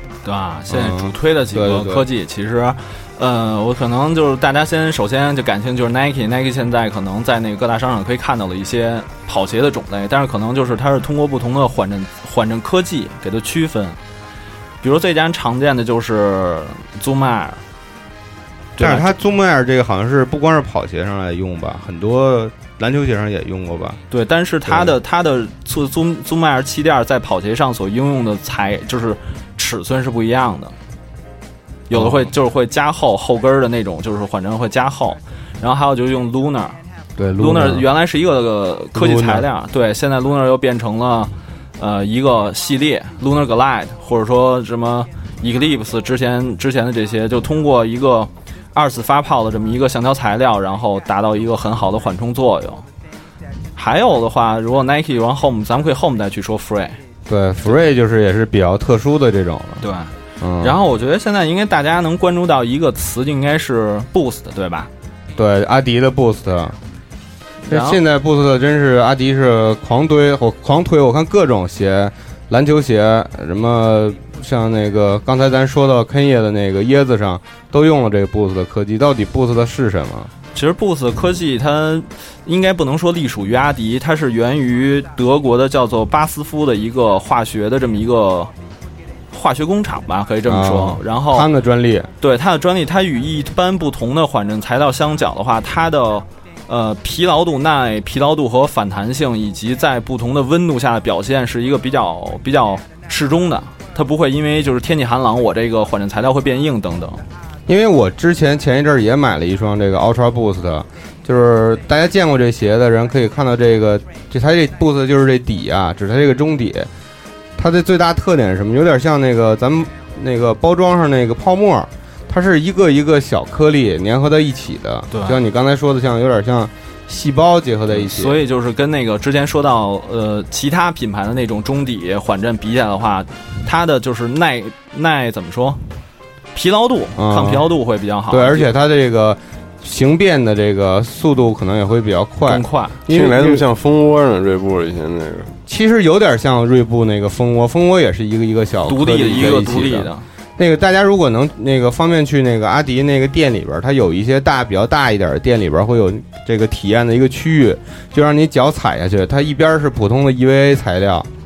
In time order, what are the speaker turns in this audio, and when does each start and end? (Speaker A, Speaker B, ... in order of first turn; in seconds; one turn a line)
Speaker A: 0.2-14.0
Speaker B: 0.7-2.0
Speaker A: 14.8-17.6
Speaker A: 18.8-19.2
Speaker B: 18.8-24.0
Speaker A: 24.1-30.7
Speaker A: 31.9-36.8
Speaker B: 31.9-32.3
Speaker B: 37.2-37.9
Speaker A: 37.4-52.9
Speaker B: 38.9-39.5
Speaker A: 53.8-57.0
Speaker B: 57.3-59.9
Speaker A: 59.8-64.9
Speaker B: 60.4-60.8
Speaker B: 65.3-66.8
Speaker A: 67.7-68.0
Speaker B: 67.7-80.3
Speaker A: 80.5-88.5
Speaker A: 89.3-91.5
Speaker B: 90.4-92.1
Speaker A: 92.2-107.2
Speaker B: 107.7-116.9
Speaker B: 117.6-128.4
Speaker A: 125.1-125.4
Speaker A: 127.9-135.8
Speaker A: 136.5-138.7
Speaker B: 137.2-137.7
Speaker B: 138.3-143.7
Speaker A: 142.4-143.0
Speaker C: 143.1-145.5
Speaker B: 145.7-161.3
Speaker A: 148.8-150.2